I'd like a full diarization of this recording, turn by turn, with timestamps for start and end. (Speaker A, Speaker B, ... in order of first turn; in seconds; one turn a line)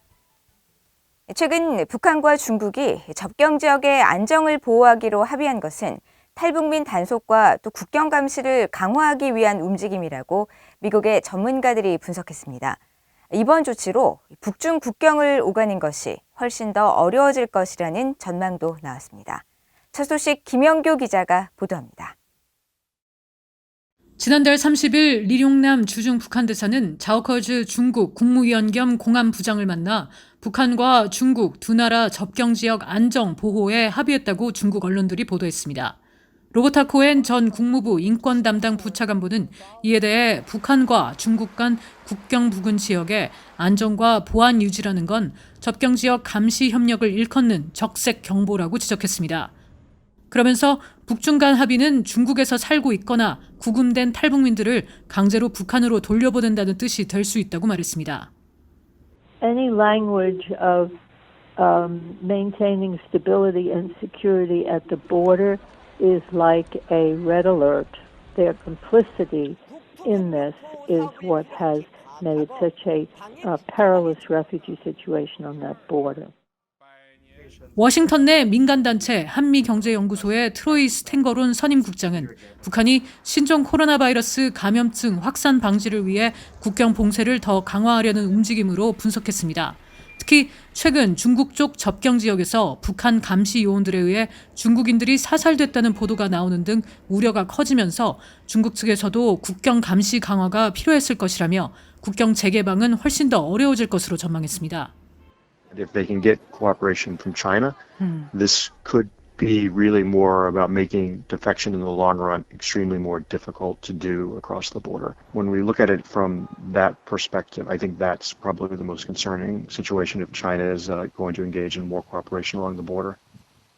Speaker A: 1.3-12.8
Speaker A: 13.3-22.1
Speaker B: 24.2-36.0
Speaker B: 36.5-49.5
Speaker B: 50.3-58.3
Speaker C: 59.4-60.9
Speaker C: 61.6-76.3
Speaker B: 77.8-104.9
Speaker D: 105.7-107.8
Speaker B: 108.0-108.3
Speaker D: 108.3-123.2